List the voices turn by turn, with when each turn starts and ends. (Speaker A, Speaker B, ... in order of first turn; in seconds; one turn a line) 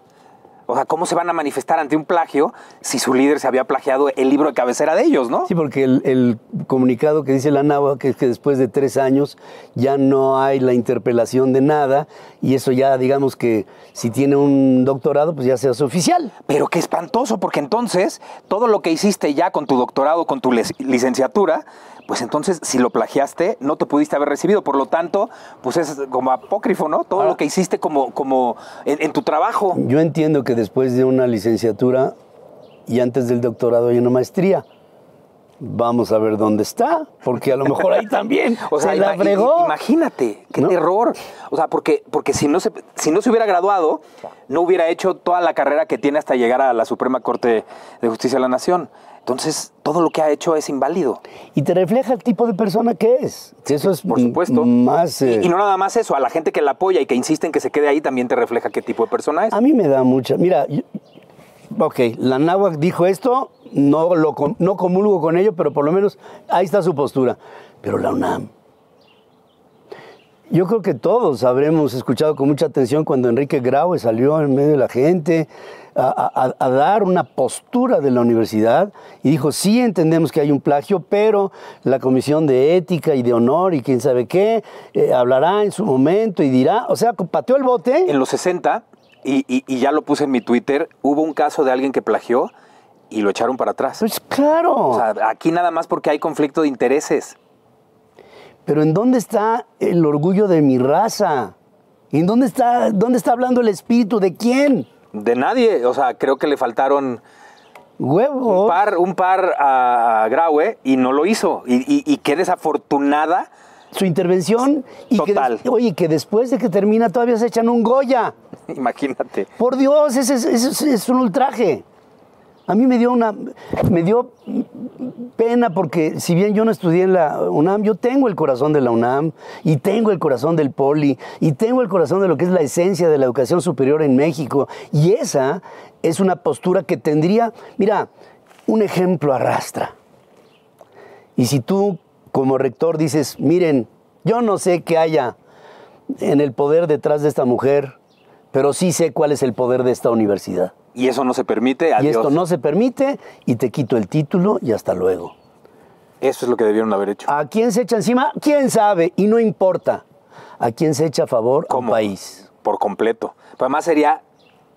Speaker A: 0.7-5.5
Speaker B: 5.5-16.3
Speaker A: 16.5-29.8
Speaker B: 29.7-32.1
Speaker B: 32.9-34.6
Speaker B: 35.6-39.7
Speaker A: 38.6-51.2
Speaker B: 51.5-55.5
Speaker A: 54.1-54.7
Speaker A: 55.2-59.5
Speaker B: 59.5-60.9
Speaker B: 61.7-68.5
Speaker B: 70.5-88.1
Speaker A: 88.0-92.5
Speaker A: 93.1-94.0
Speaker B: 94.0-95.0
Speaker A: 94.9-97.3
Speaker B: 98.7-101.5
Speaker B: 102.1-104.9
Speaker A: 105.1-107.2
Speaker B: 108.0-108.8
Speaker A: 108.5-113.5
Speaker B: 113.9-118.3
Speaker A: 115.1-115.6
Speaker A: 118.7-119.5
Speaker B: 119.6-121.8
Speaker B: 122.7-138.1
Speaker B: 138.7-139.9
Speaker B: 141.3-145.3
Speaker B: 146.1-147.9
Speaker B: 148.5-150.7
Speaker A: 150.9-152.4
Speaker B: 152.0-155.3
Speaker A: 156.2-157.3
Speaker B: 157.3-160.0
Speaker B: 160.6-162.5
Speaker A: 161.7-162.0
Speaker A: 162.6-164.2